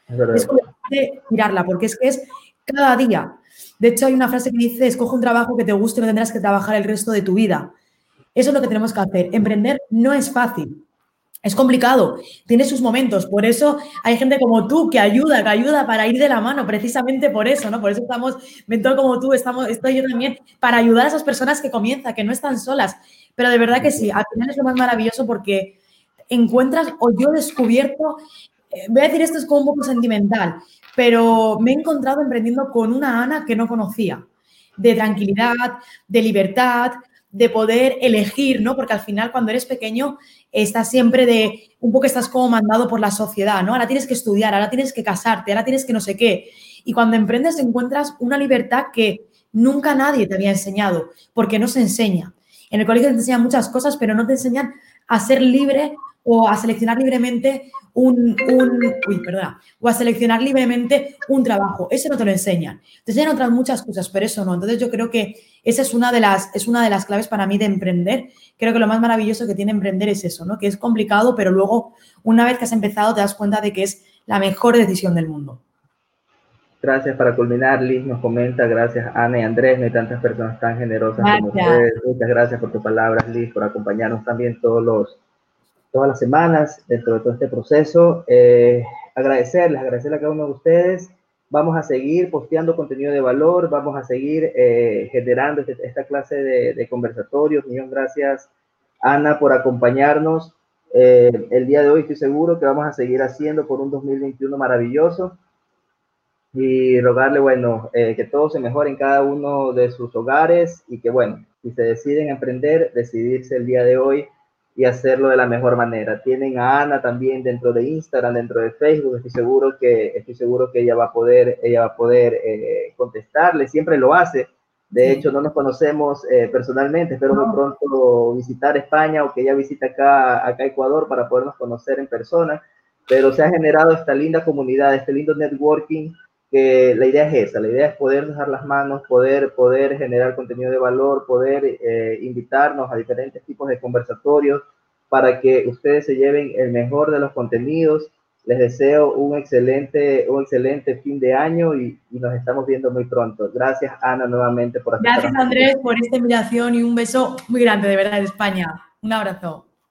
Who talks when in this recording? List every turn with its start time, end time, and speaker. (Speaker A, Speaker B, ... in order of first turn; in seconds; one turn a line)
Speaker A: 0.1-0.5
Speaker B: 0.3-7.7
Speaker B: 8.3-10.8
Speaker B: 11.4-25.8
Speaker A: 23.8-24.1
Speaker B: 26.3-34.2
Speaker B: 34.8-75.6
Speaker A: 76.8-85.2
Speaker B: 81.2-81.9
Speaker A: 85.9-98.5
Speaker A: 99.0-105.4
Speaker A: 106.5-155.7
Speaker B: 125.0-125.3
Speaker B: 127.3-127.6
Speaker B: 155.0-159.7